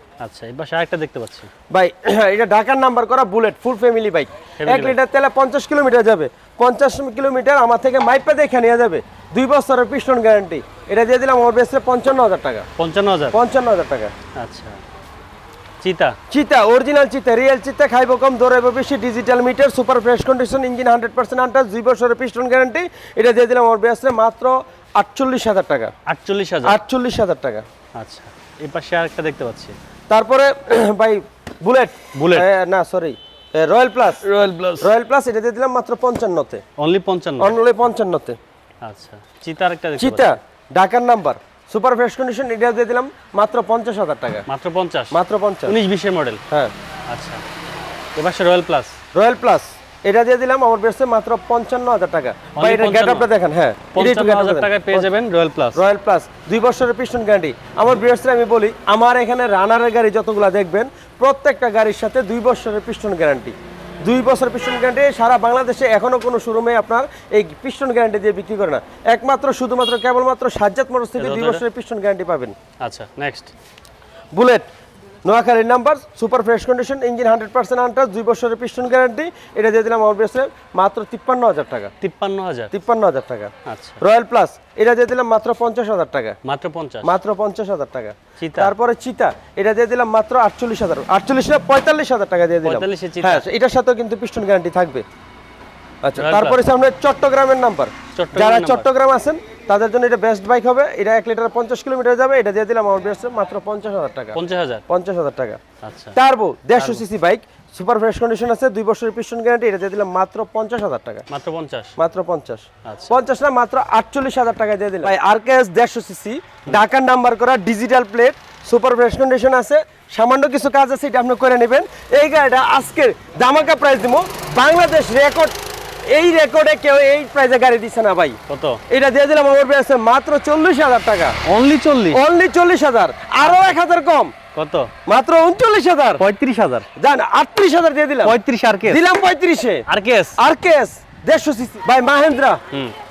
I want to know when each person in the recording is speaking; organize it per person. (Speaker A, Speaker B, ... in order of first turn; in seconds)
Speaker A: 0.2-1.5, 4.6-5.0, 12.8-13.4, 14.4-14.8, 15.8-16.2, 26.1-26.8, 28.0-29.8, 32.1-32.5, 34.2-34.9, 36.8-37.6, 38.8-40.4, 44.5-46.4, 47.1-47.4, 48.1-49.0, 52.6-53.3, 53.9-55.8, 71.2-71.6, 72.8-73.5, 82.0-82.7, 83.7-84.0, 86.4-87.1, 88.4-88.8, 92.6-93.5, 96.2-96.6, 98.1-98.9, 104.3-104.8, 105.8-106.2, 106.8-107.0, 111.3-112.0, 112.8-113.2, 128.5-128.8, 131.4-132.2, 133.4-133.8, 134.5-134.9, 136.2-136.9, 138.2-139.0, 139.9-140.4
Speaker B: 1.7-12.7, 13.3-14.1, 16.3-25.9, 26.6-27.6, 30.1-34.3, 34.8-36.6, 37.4-38.4, 40.0-44.5, 45.1-45.8, 49.1-55.1, 55.8-72.5, 74.3-74.7, 75.2-81.9, 82.7-86.4, 87.0-95.0, 96.0-105.6, 106.2-111.3, 112.0-125.6, 126.1-128.4, 128.9-131.4, 132.1-134.3, 135.1-136.2, 137.0-139.8, 140.4-142.6